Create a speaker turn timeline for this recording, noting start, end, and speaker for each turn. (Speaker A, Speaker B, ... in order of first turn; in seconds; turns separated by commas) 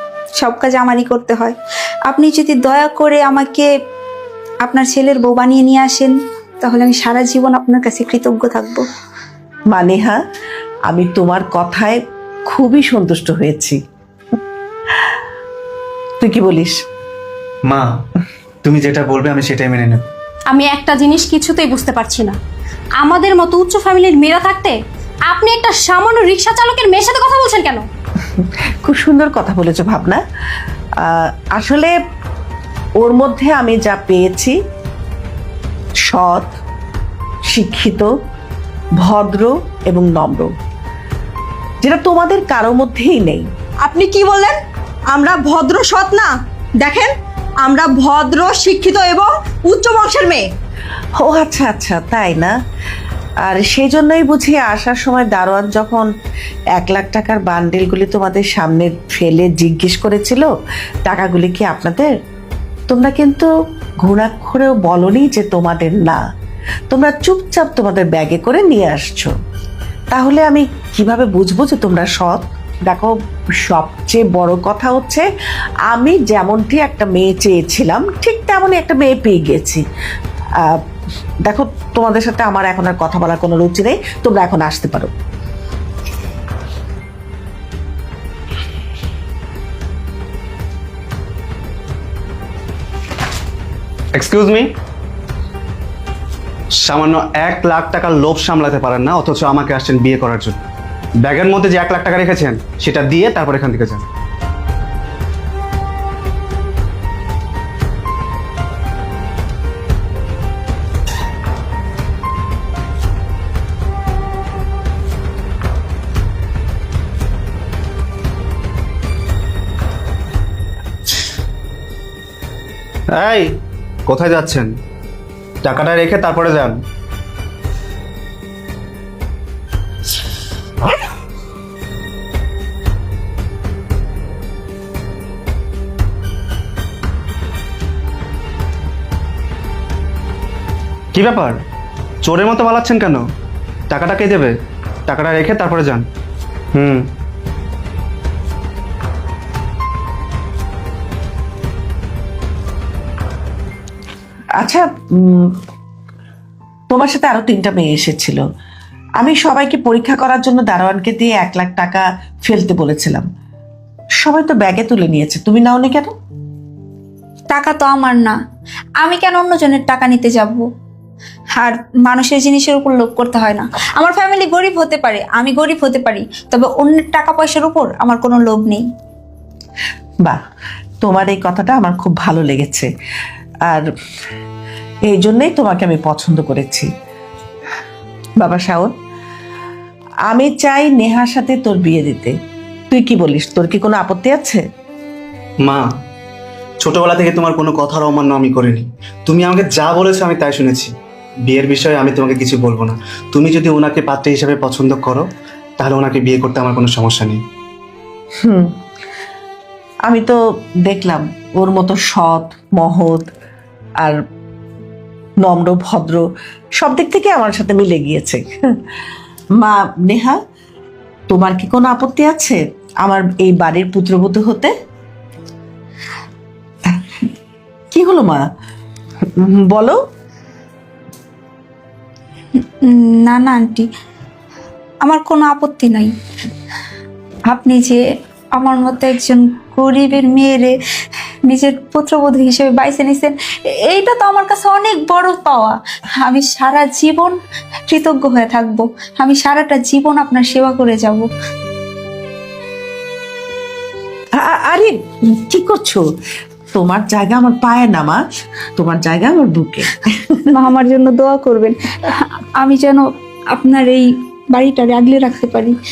Speaker A: 0.4-1.6, Speaker A: 2.1-3.7, Speaker A: 4.7-8.8, Speaker B: 9.7-10.2, Speaker B: 10.9-13.8, Speaker B: 16.2-16.8, Speaker C: 18.6-20.0, Speaker D: 20.5-22.4, Speaker D: 23.0-24.8, Speaker D: 25.3-27.8, Speaker B: 28.3-30.2, Speaker B: 31.0-31.9, Speaker B: 33.0-34.5, Speaker B: 36.1-36.5, Speaker B: 37.5-38.1, Speaker B: 39.0-40.5, Speaker B: 41.8-43.5, Speaker E: 43.9-44.6, Speaker E: 45.1-47.1, Speaker E: 47.6-50.5, Speaker B: 51.2-52.5, Speaker B: 53.4-56.1, Speaker B: 56.8-60.5, Speaker B: 61.1-62.1, Speaker B: 62.9-63.5, Speaker B: 64.0-66.2, Speaker B: 66.9-69.3, Speaker B: 70.1-75.3, Speaker B: 75.9-79.8, Speaker B: 81.5-85.1, Speaker C: 94.1-94.7, Speaker C: 96.8-100.6, Speaker C: 101.2-104.0, Speaker C: 123.1-123.5, Speaker C: 124.1-124.7, Speaker C: 125.6-126.8, Speaker C: 141.1-141.6, Speaker C: 142.2-143.2, Speaker C: 143.9-144.5, Speaker C: 145.1-146.1, Speaker C: 146.8-147.1, Speaker B: 154.6-155.6, Speaker B: 156.9-158.4, Speaker B: 159.2-163.3, Speaker B: 164.2-166.1, Speaker A: 167.5-168.4, Speaker A: 169.0-170.7, Speaker A: 171.6-178.8, Speaker B: 181.0-182.9, Speaker B: 185.1-186.9, Speaker B: 188.4-188.9, Speaker B: 190.3-192.3, Speaker B: 192.9-194.6, Speaker C: 196.8-200.9, Speaker C: 201.5-205.3, Speaker C: 205.8-207.4, Speaker B: 208.4-208.7, Speaker B: 210.1-213.3, Speaker B: 215.4-216.3, Speaker B: 216.8-218.8, Speaker B: 219.6-220.4, Speaker B: 221.3-224.7, Speaker B: 227.9-228.4, Speaker B: 229.4-230.0, Speaker A: 232.8-233.9, Speaker A: 235.0-236.1, Speaker A: 237.5-238.0, Speaker A: 238.6-240.8, Speaker A: 241.5-247.4, Speaker A: 247.9-251.3, Speaker B: 254.3-256.1, Speaker B: 256.7-258.2, Speaker B: 258.8-260.6, Speaker A: 260.5-265.8